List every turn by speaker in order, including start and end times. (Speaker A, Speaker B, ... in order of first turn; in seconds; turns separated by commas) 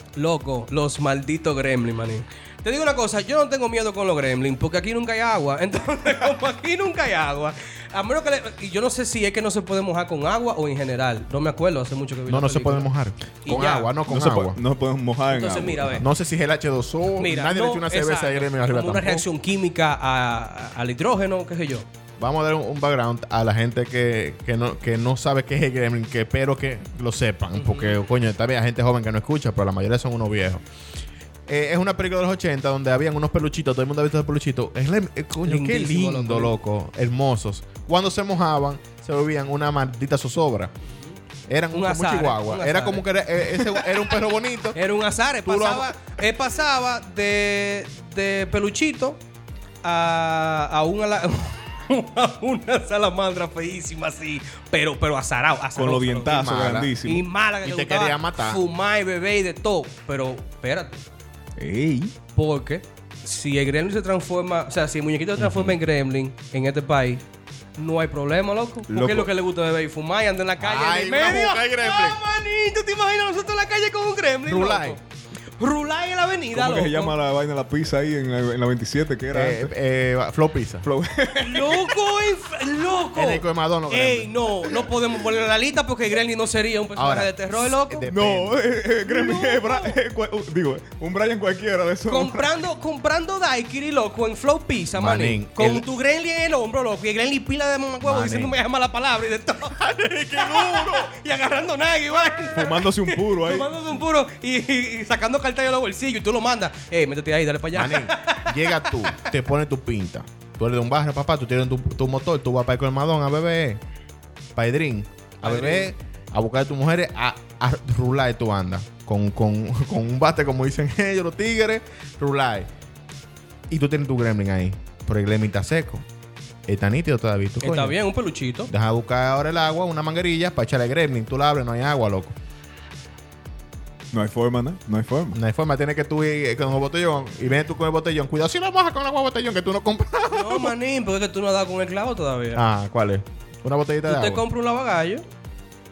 Speaker A: 0.2-12.9, Speaker B: 12.3-14.6, Speaker A: 13.4-13.9, Speaker C: 14.1-16.0, Speaker A: 15.3-16.1, Speaker B: 16.0-19.2, Speaker A: 17.2-21.9, Speaker B: 22.2-30.6, Speaker A: 27.5-28.0, Speaker B: 31.5-40.7, Speaker A: 35.4-36.5, Speaker B: 41.5-44.8, Speaker A: 41.7-44.1, Speaker A: 44.7-49.2, Speaker B: 45.4-45.9, Speaker A: 49.8-56.4, Speaker C: 55.8-57.2, Speaker B: 56.2-56.9, Speaker A: 57.0-61.0, Speaker B: 57.6-58.6, Speaker C: 61.6-62.1, Speaker A: 62.3-67.2, Speaker A: 67.8-75.0, Speaker C: 68.9-69.3, Speaker B: 70.6-72.2, Speaker B: 74.5-75.0, Speaker A: 75.6-77.1, Speaker C: 76.5-79.7, Speaker B: 79.3-80.9, Speaker C: 80.8-81.9, Speaker A: 81.3-88.1, Speaker B: 83.1-84.3, Speaker B: 87.0-88.6, Speaker C: 88.1-92.5, Speaker A: 89.0-89.9, Speaker A: 92.1-99.8, Speaker B: 95.0-95.8, Speaker B: 98.0-98.5, Speaker B: 99.7-101.1, Speaker A: 100.3-109.2, Speaker C: 102.5-103.8, Speaker B: 107.7-113.8, Speaker B: 114.5-122.7, Speaker A: 115.4-115.9, Speaker B: 123.7-126.0, Speaker B: 126.7-128.0, Speaker A: 127.6-128.7, Speaker B: 128.7-132.3, Speaker C: 134.1-135.4, Speaker B: 135.3-140.7, Speaker A: 140.3-142.6, Speaker B: 142.5-144.4, Speaker A: 144.1-145.2